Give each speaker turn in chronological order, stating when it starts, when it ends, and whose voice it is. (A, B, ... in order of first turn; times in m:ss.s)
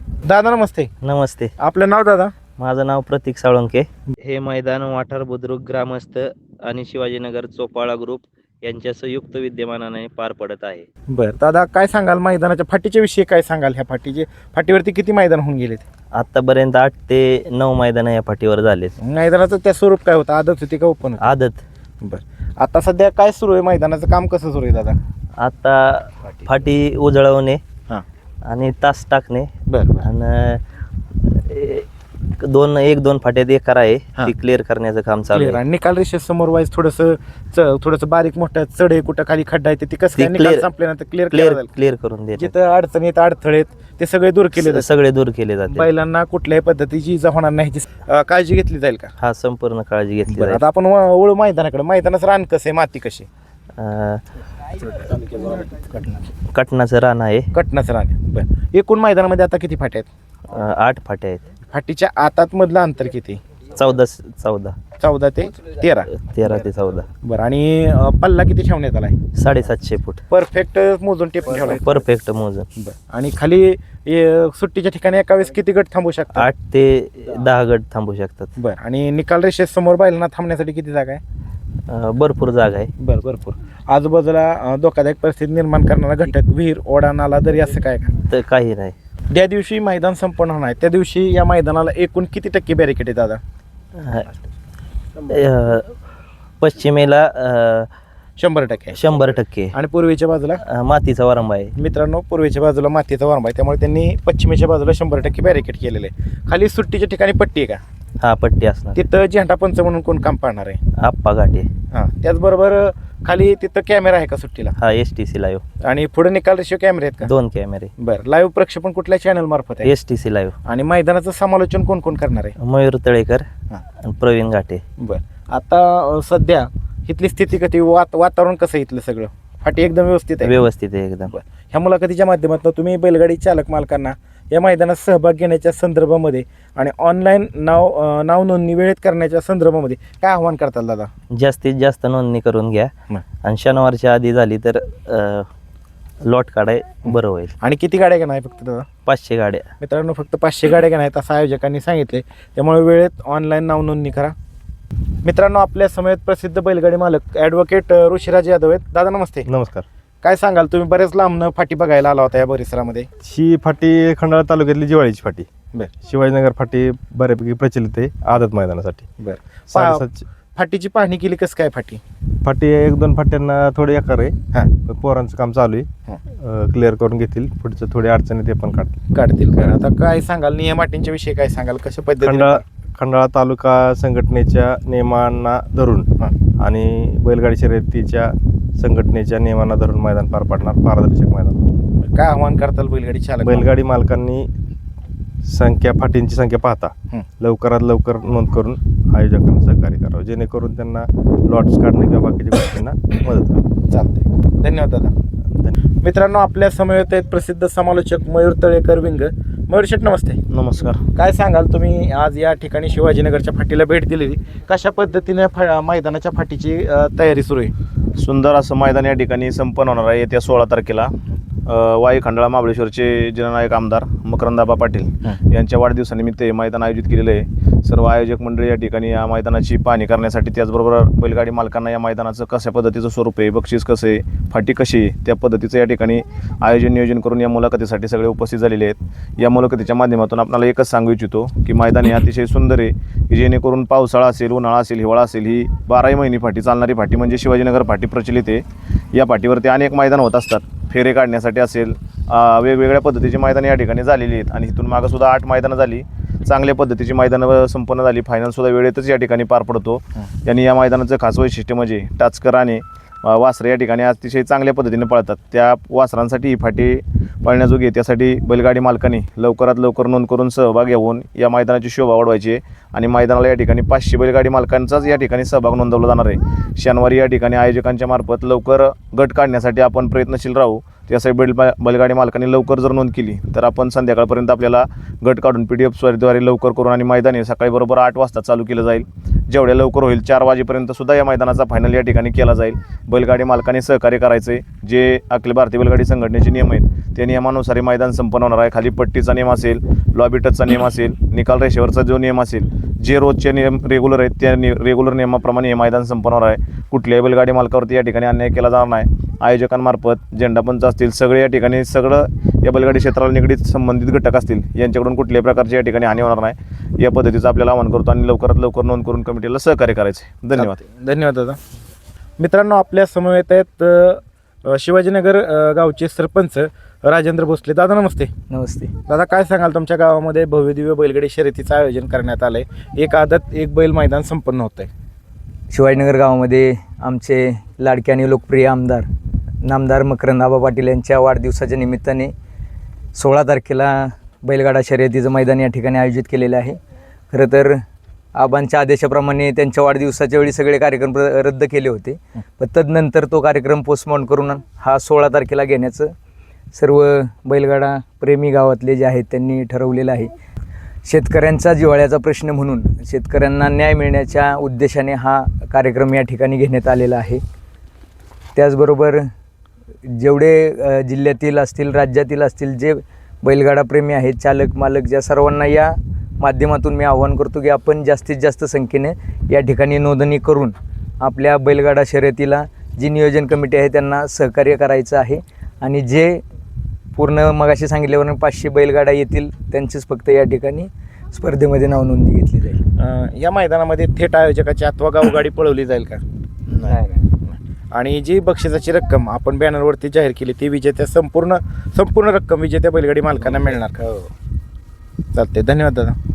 0:00.2-0:00.9 A
0:01.0-0:01.5 B
0:01.6-0:02.3 A
0:02.6-0:10.9 B
0:11.1-0:15.8 A
0:16.1-0:19.0 B
0:19.0-0:21.2 A
0:21.2-0:21.6 B
0:22.0-0:25.0 A
0:25.4-0:27.6 B
0:28.4-0:30.6 B
0:29.7-0:30.1 A
0:31.3-0:31.9 B
0:32.4-0:35.6 B
0:35.3-0:41.7 A
0:40.2-0:40.7 B
0:41.3-0:42.5 B
0:42.4-0:44.9 A
0:44.6-0:45.9 B
0:45.7-0:49.1 A
0:49.2-0:50.6 B
0:50.3-0:53.3 A
0:53.8-0:54.2 B
0:56.5-0:57.5 B
0:57.5-1:00.1 A
1:00.5-1:01.4 B
1:01.7-1:03.4 A
1:03.8-1:04.8 B
1:05.0-1:06.1 A
1:06.2-1:07.1 B
1:07.2-1:09.2 A
1:09.4-1:10.2 B
1:10.3-1:11.8 A
1:11.8-1:12.7 B
1:12.8-1:16.5 A
1:16.4-1:18.5 B
1:18.6-1:21.2 A
1:21.9-1:22.9 B
1:23.0-1:28.2 A
1:28.3-1:29.0 B
1:29.3-1:33.4 A
1:34.0-1:34.3 B
1:35.2-1:35.9 B
1:36.6-1:37.9 B
1:38.4-1:39.0 A
1:38.9-1:39.7 B
1:39.7-1:40.6 A
1:40.6-1:41.7 B
1:41.8-1:47.8 A
1:48.2-1:49.0 B
1:49.0-1:50.8 A
1:51.0-1:51.7 B
1:51.9-1:54.8 A
1:54.8-1:55.6 B
1:55.8-1:57.3 A
1:57.2-1:57.9 B
1:58.0-1:59.9 A
1:59.8-2:00.6 B
2:00.7-2:02.6 A
2:02.6-2:03.5 B
2:04.0-2:04.8 B
2:05.0-2:10.6 A
2:10.4-2:11.3 B
2:11.3-2:21.1 A
2:21.3-2:22.9 B
2:23.4-2:25.5 B
2:26.2-2:27.5 B
2:27.1-2:28.9 A
2:29.1-2:29.7 B
2:29.8-2:34.4 A
2:35.2-2:39.5 A
2:39.5-2:39.9 C
2:40.2-2:43.1 A
2:43.2-2:45.5 C
2:46.0-2:49.1 C
2:49.2-2:50.0 A
2:49.7-2:50.2 C
2:50.6-2:52.0 A
2:52.4-2:59.0 C
2:59.1-3:02.6 A
3:02.2-3:06.1 C
3:06.6-3:11.6 C
3:12.0-3:13.7 A
3:13.4-3:14.5 C
3:15.5-3:23.7 C
3:23.9-3:25.1 A
3:26.0-3:30.4 A
3:30.5-3:31.0 D
3:31.2-3:37.7 A
3:38.2-5:20.8 D
5:20.5-5:21.6 A
5:22.4-5:28.3 A
5:28.5-5:28.9 E
5:29.1-5:34.9 A
5:35.7-5:39.1 E
5:39.6-5:42.3 E
5:43.2-5:46.8 E
5:47.3-5:47.8 E
5:48.4-5:56.1 E
5:56.7-6:00.3 E
6:01.1-6:07.4 E
6:08.6-6:09.3 E
6:10.1-6:26.4 E
6:27.2-6:32.8 E
6:33.0-6:36.2 A
6:36.8-6:44.2 A
6:36.8-6:37.2 E
6:45.3-6:46.2 A